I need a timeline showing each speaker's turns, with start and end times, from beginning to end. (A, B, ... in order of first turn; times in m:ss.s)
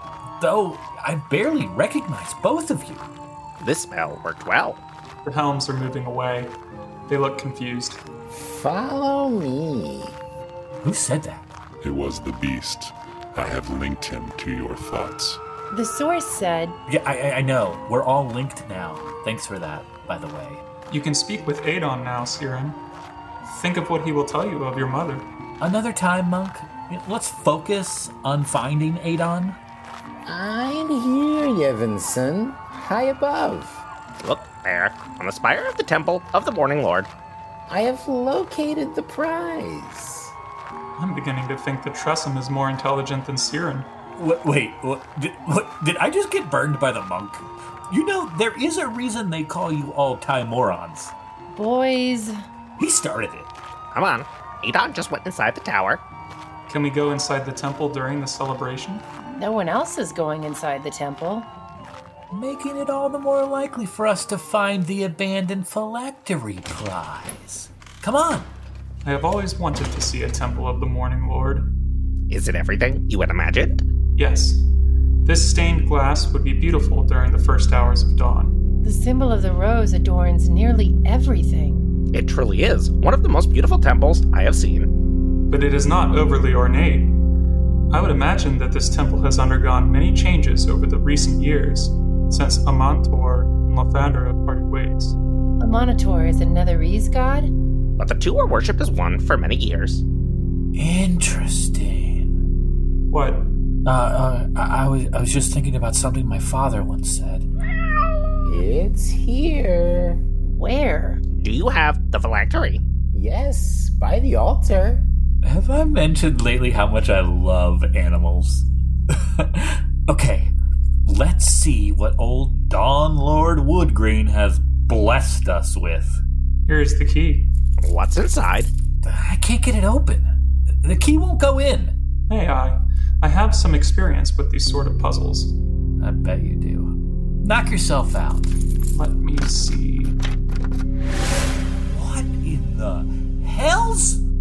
0:00.4-0:03.1 A
0:03.6-0:04.8 B
0:05.2-0:06.6 C
0:07.1-0:08.0 C
0:08.3-0:10.2 D
0:10.8-0:11.5 A
0:11.8-0:15.4 E
0:15.7-0:16.8 F
0:16.9-0:20.6 A
0:20.9-0:22.8 C
0:23.5-0:25.3 C
0:25.6-0:29.6 A
0:30.3-0:33.8 D
0:34.2-0:37.1 B
0:37.7-0:40.3 D
0:41.0-0:43.9 C
0:44.2-0:51.1 A
0:51.5-0:52.4 F
0:52.8-0:53.5 A
0:53.9-0:56.0 B
0:56.7-0:59.0 C
0:59.3-1:01.5 F
1:02.3-1:08.5 A
1:09.0-1:11.7 C
1:12.3-1:13.8 B
1:14.2-1:14.6 C
1:15.3-1:18.6 C
1:18.8-1:21.9 F
1:22.1-1:24.9 B
1:25.5-1:27.2 C
1:27.9-1:35.2 C
1:35.6-1:37.5 F
1:38.0-1:40.0 B
1:40.8-1:42.4 A
1:43.1-1:43.5 C
1:43.8-1:47.5 A
1:48.4-1:50.2 D
1:50.5-1:51.2 F
1:51.3-1:52.8 B
1:53.1-1:55.0 D
1:55.4-2:00.5 A
2:01.1-2:06.2 A
2:06.7-2:07.5 C
2:07.8-2:08.7 B
2:09.0-2:10.3 A
2:10.8-2:11.9 A
2:12.3-2:15.5 C
2:16.0-2:18.5 A
2:18.9-2:20.2 C
2:21.9-2:24.2 A